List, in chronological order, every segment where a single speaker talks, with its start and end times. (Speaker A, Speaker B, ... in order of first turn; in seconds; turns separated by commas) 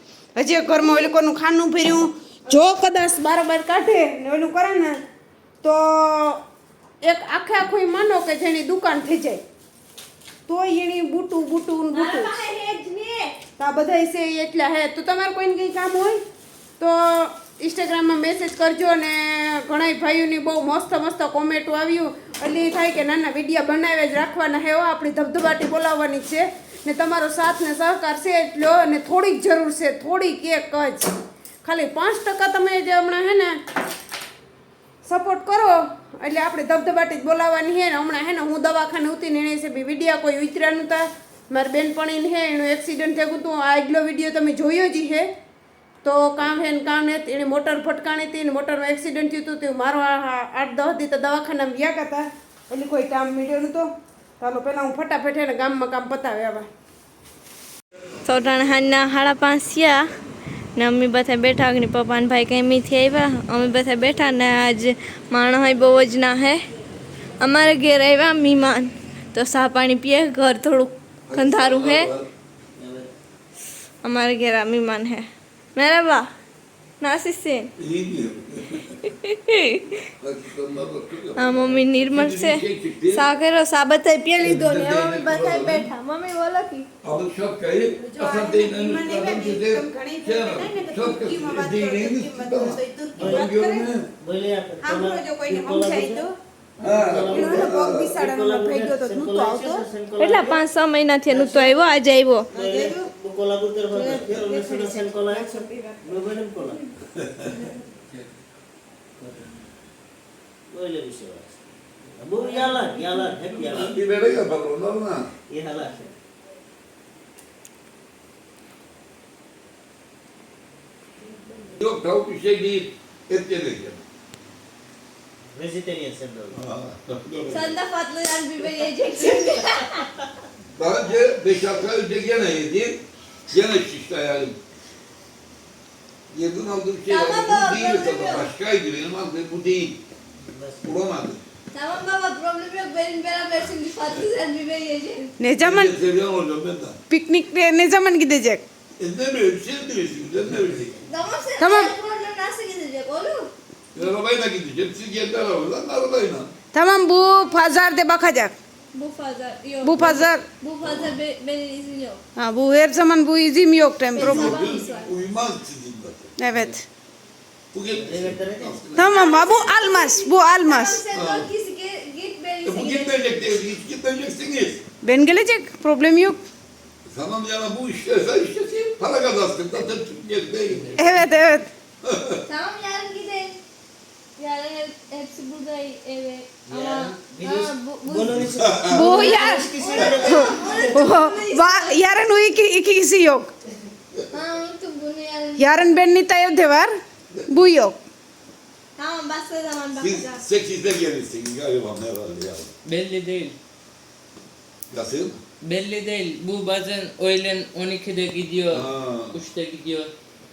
Speaker A: 0.3-5.0, Speaker A: 5.6-6.4, Speaker A: 7.0-9.4, Speaker A: 10.5-12.3, Speaker B: 11.9-13.3, Speaker A: 13.6-16.2, Speaker A: 16.8-31.1, Speaker A: 31.6-33.6, Speaker A: 35.0-45.3, Speaker A: 46.0-53.9, Speaker A: 54.4-56.7, Speaker B: 58.2-60.1, Speaker B: 60.8-66.6, Speaker B: 67.4-72.1, Speaker C: 71.3-72.3, Speaker D: 72.8-73.1, Speaker B: 74.0-76.3, Speaker B: 77.0-77.7, Speaker C: 77.8-79.0, Speaker B: 79.0-79.9, Speaker C: 80.2-83.3, Speaker B: 81.3-86.9, Speaker C: 84.4-85.9, Speaker C: 87.0-94.1, Speaker A: 88.0-93.9, Speaker D: 93.2-93.5, Speaker D: 94.2-96.2, Speaker A: 94.8-96.3, Speaker D: 96.8-100.6, Speaker C: 96.8-98.1, Speaker A: 97.3-99.8, Speaker B: 100.2-102.5, Speaker D: 101.3-101.8, Speaker A: 102.5-103.1, Speaker D: 102.5-106.8, Speaker A: 103.9-106.2, Speaker C: 107.2-107.5, Speaker D: 109.2-109.5, Speaker D: 110.7-111.6, Speaker D: 112.1-113.9, Speaker C: 113.5-115.3, Speaker D: 115.5-116.1, Speaker C: 121.7-124.0, Speaker D: 125.5-126.6, Speaker C: 126.5-127.8, Speaker B: 127.5-130.1, Speaker C: 130.7-134.6, Speaker C: 136.3-140.0, Speaker B: 137.1-138.5, Speaker D: 140.4-141.0, Speaker C: 140.8-141.4, Speaker B: 141.7-145.3, Speaker A: 145.4-145.9, Speaker C: 145.6-147.0, Speaker A: 147.1-148.6, Speaker C: 149.0-151.0, Speaker B: 151.1-153.5, Speaker A: 151.6-151.9, Speaker C: 153.9-156.5, Speaker A: 156.7-158.5, Speaker B: 158.9-162.2, Speaker A: 159.8-160.4, Speaker C: 160.8-161.2, Speaker A: 162.4-164.6, Speaker B: 164.1-165.1, Speaker C: 164.2-166.3, Speaker A: 166.4-166.8, Speaker C: 167.7-169.2, Speaker D: 167.9-168.8, Speaker A: 168.9-171.0, Speaker B: 169.0-173.2, Speaker C: 171.1-171.5, Speaker C: 172.6-174.8, Speaker A: 175.0-176.4, Speaker C: 177.1-181.0, Speaker A: 180.9-181.7, Speaker C: 182.0-182.4, Speaker B: 182.5-183.6, Speaker B: 184.4-192.0, Speaker D: 186.7-191.1, Speaker C: 188.5-189.0, Speaker A: 188.9-193.5, Speaker B: 194.3-195.7, Speaker A: 195.6-196.9, Speaker A: 197.5-198.0, Speaker B: 199.0-200.4, Speaker C: 200.0-202.7, Speaker E: 202.8-203.6, Speaker C: 204.9-205.4, Speaker E: 205.6-210.1, Speaker C: 208.7-209.4